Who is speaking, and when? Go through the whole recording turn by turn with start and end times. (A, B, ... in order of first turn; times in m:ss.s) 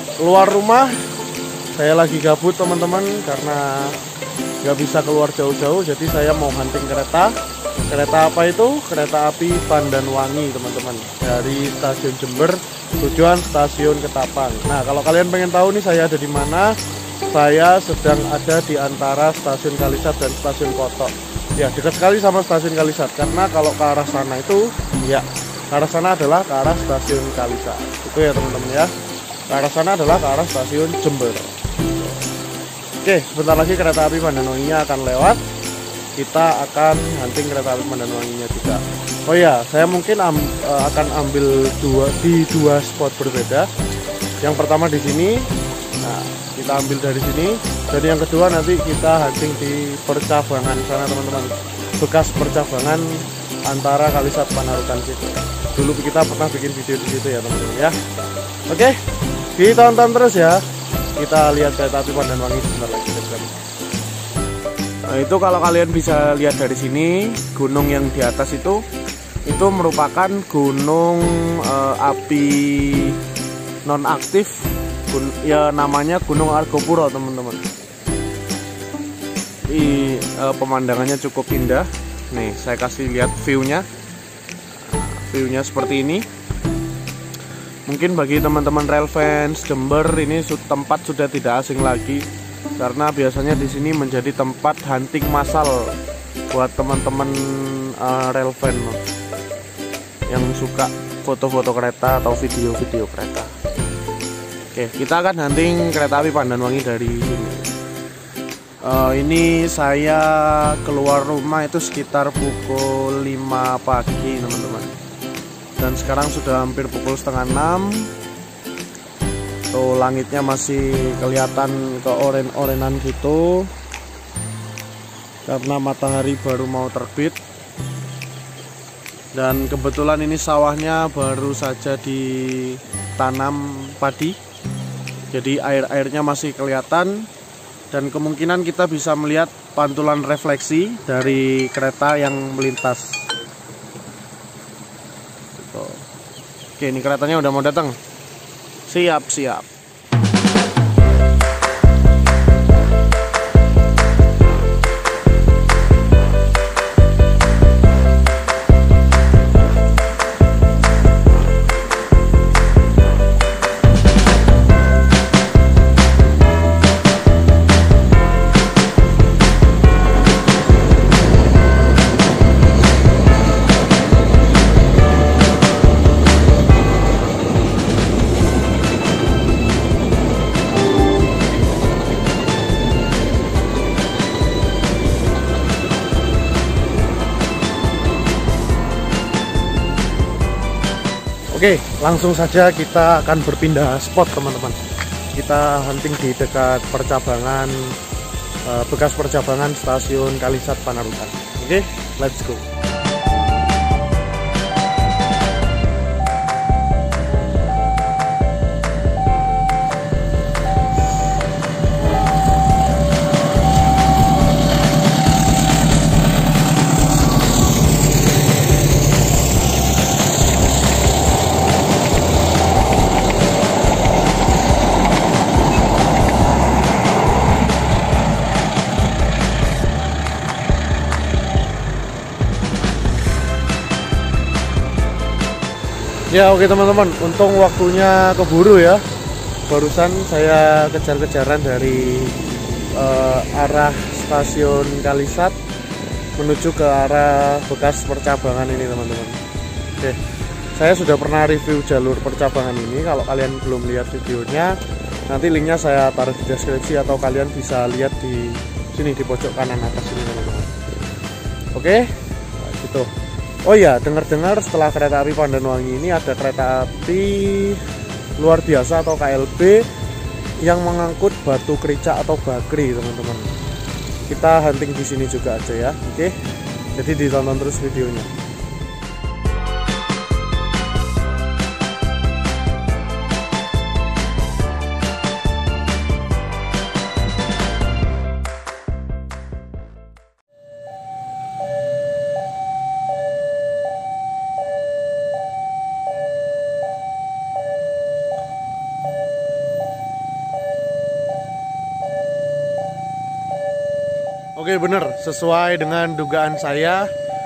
0:00.2-0:01.0 A
0:01.7-0:04.0 A
0:04.6-0:07.4 A
0:07.9-0:16.8 A
0:17.3-0:28.9 A
0:29.5-0:32.2 A
0:33.0-0:35.4 A
0:36.2-0:43.7 A
0:44.4-0:45.5 A
0:46.0-0:58.0 A
0:58.7-0:59.0 A
0:59.6-1:00.6 A
1:01.2-1:03.5 A
1:05.1-1:08.8 A
1:09.4-1:13.2 A
1:13.8-1:17.6 A
1:19.7-1:23.8 A
1:24.8-1:26.3 A
1:27.9-1:36.0 A
1:36.5-1:39.0 A
1:40.3-1:43.5 A
1:44.7-1:47.7 A
1:48.8-1:55.0 A
1:55.8-1:58.1 A
1:59.7-2:03.7 A
2:05.4-2:07.4 A
2:09.3-2:14.4 A
2:15.3-2:17.3 A
2:17.9-2:23.3 A
2:25.6-2:26.0 A
2:26.8-2:28.0 A
2:28.9-2:29.7 A
3:11.5-3:14.8 A
3:15.3-3:18.0 A
3:18.6-3:22.6 A
3:56.3-3:59.0 A
3:59.7-4:02.4 A
4:02.9-4:05.5 A
4:06.4-4:09.4 A
4:10.7-4:21.1 A
4:21.7-4:23.1 A
4:23.6-4:27.8 A
4:28.4-4:29.9 A
4:30.6-4:33.5 A
4:34.3-4:36.3 A
4:36.9-4:38.3 A
5:04.6-5:07.1 A